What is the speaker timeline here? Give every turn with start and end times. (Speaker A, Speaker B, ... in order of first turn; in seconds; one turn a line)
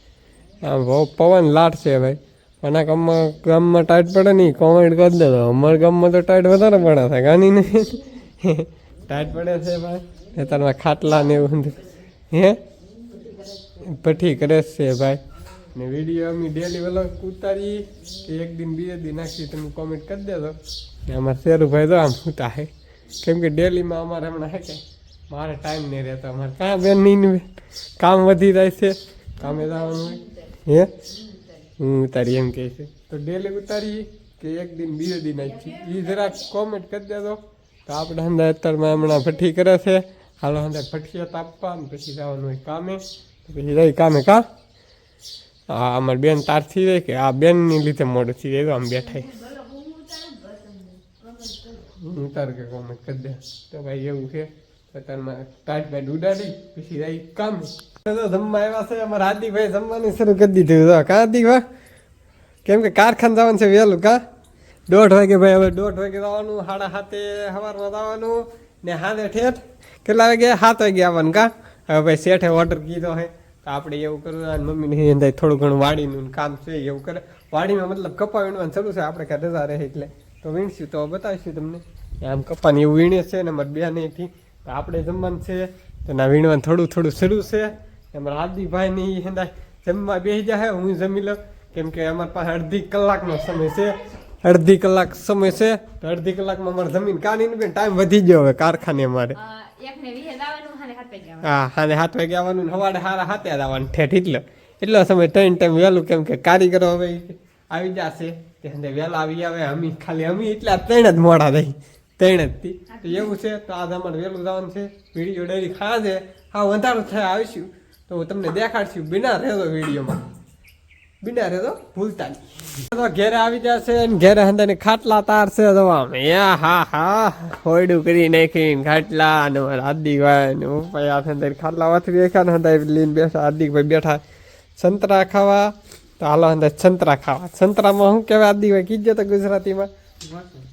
Speaker A: 0.6-12.6
Speaker A: 13.8-15.2
Speaker A: 15.8-31.0
Speaker B: 29.6-30.5
Speaker B: 31.3-31.6
Speaker A: 31.8-44.4
Speaker B: 35.6-36.4
Speaker A: 45.7-49.3
Speaker B: 49.1-51.8
Speaker A: 51.9-61.6
Speaker A: 62.6-64.2
Speaker A: 64.9-99.4
Speaker B: 99.4-101.5
Speaker A: 101.4-120.2
Speaker B: 112.9-113.3
Speaker A: 121.2-134.2
Speaker A: 134.8-139.9